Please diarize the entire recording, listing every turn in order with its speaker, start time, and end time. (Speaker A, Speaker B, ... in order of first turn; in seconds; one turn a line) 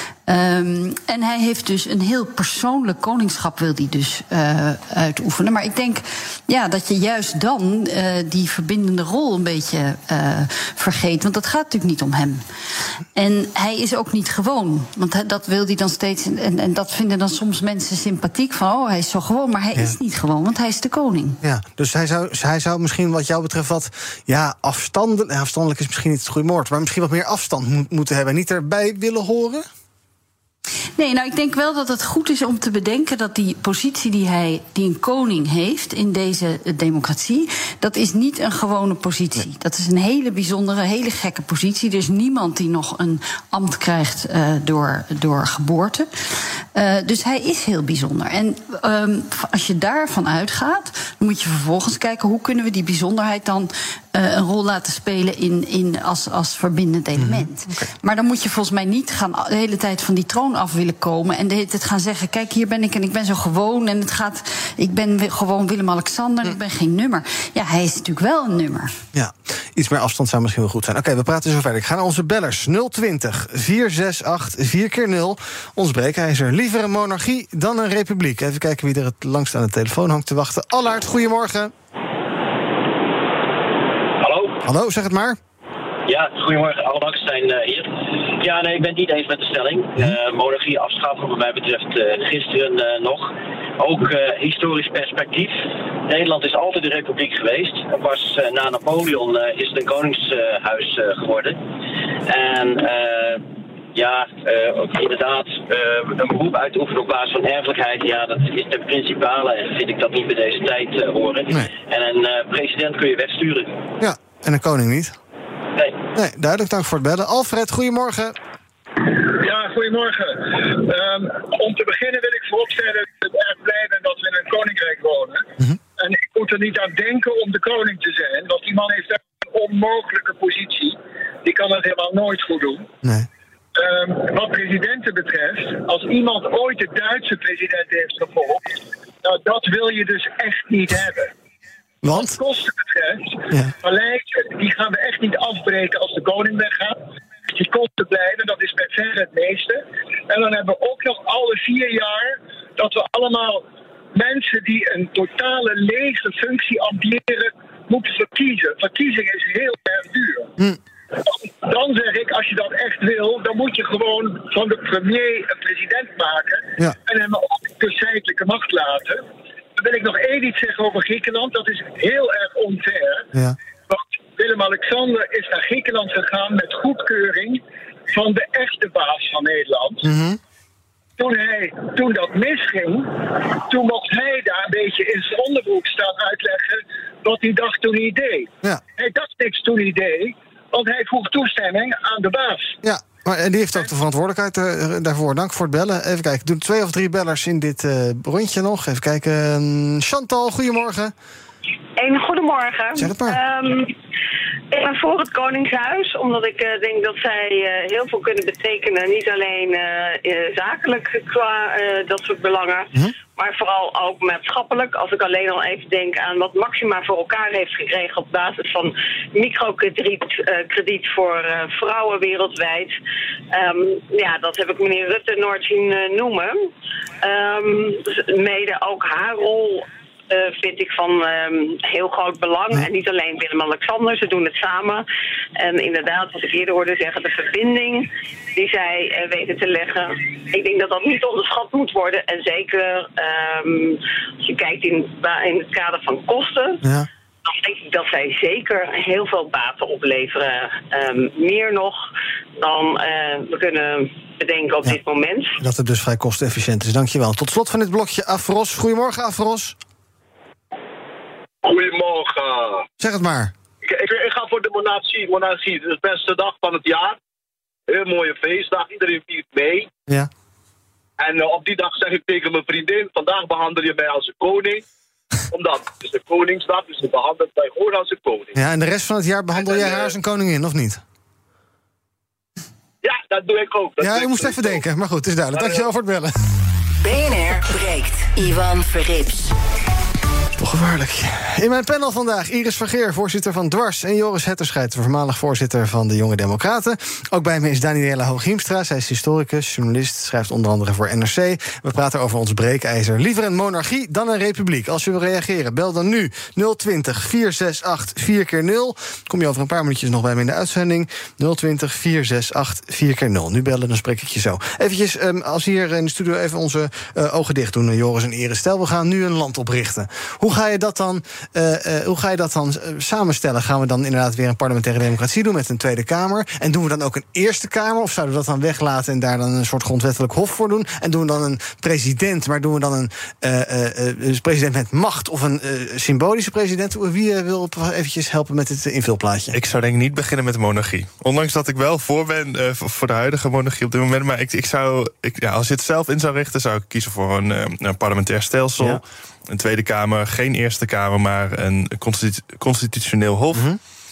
Speaker A: 0.3-12.4
Speaker A: 13.2-21.4
Speaker B: 21.4-29.7
Speaker A: 31.0-69.0
Speaker B: 57.2-57.9
Speaker B: 69.1-81.7
Speaker C: 84.2-84.6
Speaker B: 84.6-85.4
Speaker C: 86.1-101.6
Speaker C: 102.3-113.8
Speaker B: 114.0-115.2
Speaker C: 115.8-116.1
Speaker B: 116.2-118.4
Speaker D: 119.0-132.9
Speaker D: 133.8-141.3
Speaker B: 142.0-142.4
Speaker D: 142.1-160.5
Speaker D: 161.2-169.2
Speaker D: 169.8-173.3
Speaker D: 173.9-180.1
Speaker B: 180.0-180.4
Speaker D: 181.2-192.8
Speaker B: 192.8-201.1
Speaker E: 202.0-203.9
Speaker B: 203.0-203.4
Speaker E: 204.7-222.9
Speaker E: 223.5-226.7
Speaker E: 227.2-235.1
Speaker E: 235.6-246.8
Speaker B: 246.8-247.1
Speaker E: 247.5-252.0
Speaker E: 252.6-255.6
Speaker B: 255.6-259.8
Speaker F: 261.6-262.9
Speaker B: 263.0-263.5
Speaker F: 263.8-267.2
Speaker F: 267.9-269.9
Speaker F: 271.2-274.8
Speaker F: 275.5-278.6
Speaker B: 278.6-281.0
Speaker F: 279.6-280.1
Speaker F: 283.0-284.8
Speaker B: 284.0-286.4
Speaker F: 285.5-285.9
Speaker G: 287.0-289.5
Speaker B: 290.6-339.6
Speaker H: 339.5-353.7
Speaker B: 353.5-353.8